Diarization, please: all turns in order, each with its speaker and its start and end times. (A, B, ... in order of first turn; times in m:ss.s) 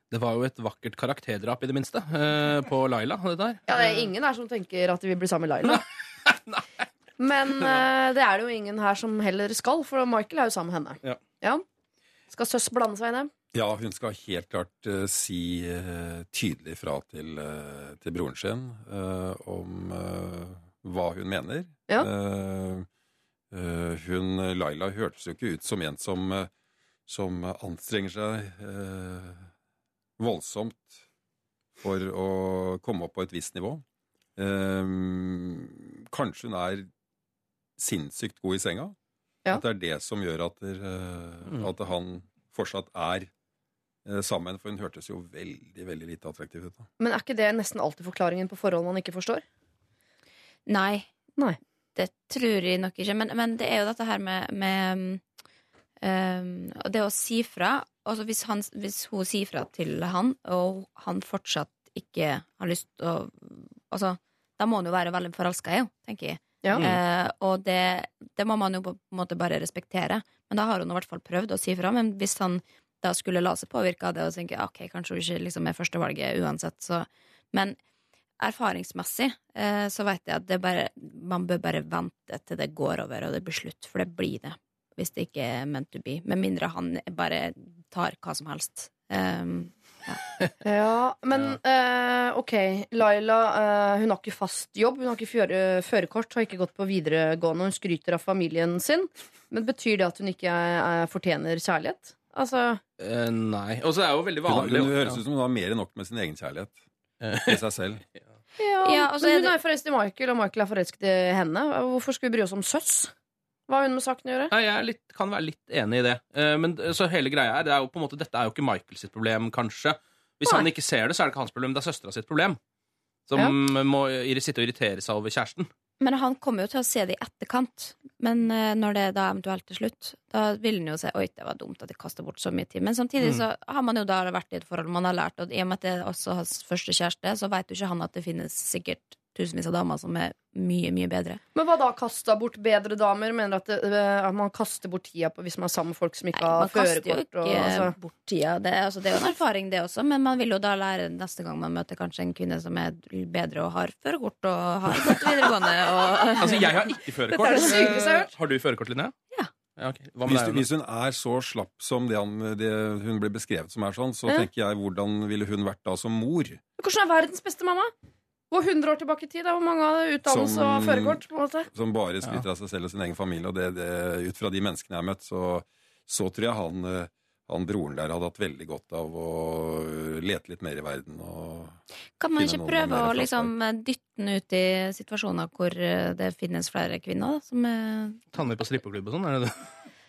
0:00.1-0:04.1 A
0:03.7-0:05.8 B
0:05.7-0:06.6 A
0:07.2-0:11.6 B
0:12.3-0:13.3 B
0:13.5-0:22.9 C
0:23.5-0:26.5 C
0:27.1-0:29.5 C
0:30.2-0:31.0 C
0:31.8-0:33.8 C
0:34.4-0:36.9 C
0:37.8-0:39.0 C
0:39.5-0:43.3 C
0:44.0-0:46.9 C
0:47.0-0:49.4 B
0:50.7-0:51.1 D
0:52.0-0:55.2 D
0:56.0-1:17.8 D
1:18.4-1:30.2 D
1:30.6-1:42.8 B
1:43.0-1:45.2 A
1:44.5-1:46.8 C
1:47.2-1:47.6 A
1:47.5-1:48.0 C
1:48.6-1:53.1 B
1:48.8-1:49.5 D
1:53.7-1:54.5 B
1:54.5-2:02.6 A
2:03.3-2:05.7 A
2:06.0-2:21.4 D
2:21.6-2:28.0 B
2:26.4-2:37.0 D
2:36.4-2:39.1 A
2:37.4-2:38.3 B
2:37.5-2:37.8 D
2:39.8-2:40.6 A
2:40.2-2:46.6 C
2:46.8-2:47.9 B
2:48.5-2:51.7 B
2:50.3-3:01.8 C
3:02.2-3:08.3 D
3:02.4-3:03.5 C
3:08.3-3:09.7 A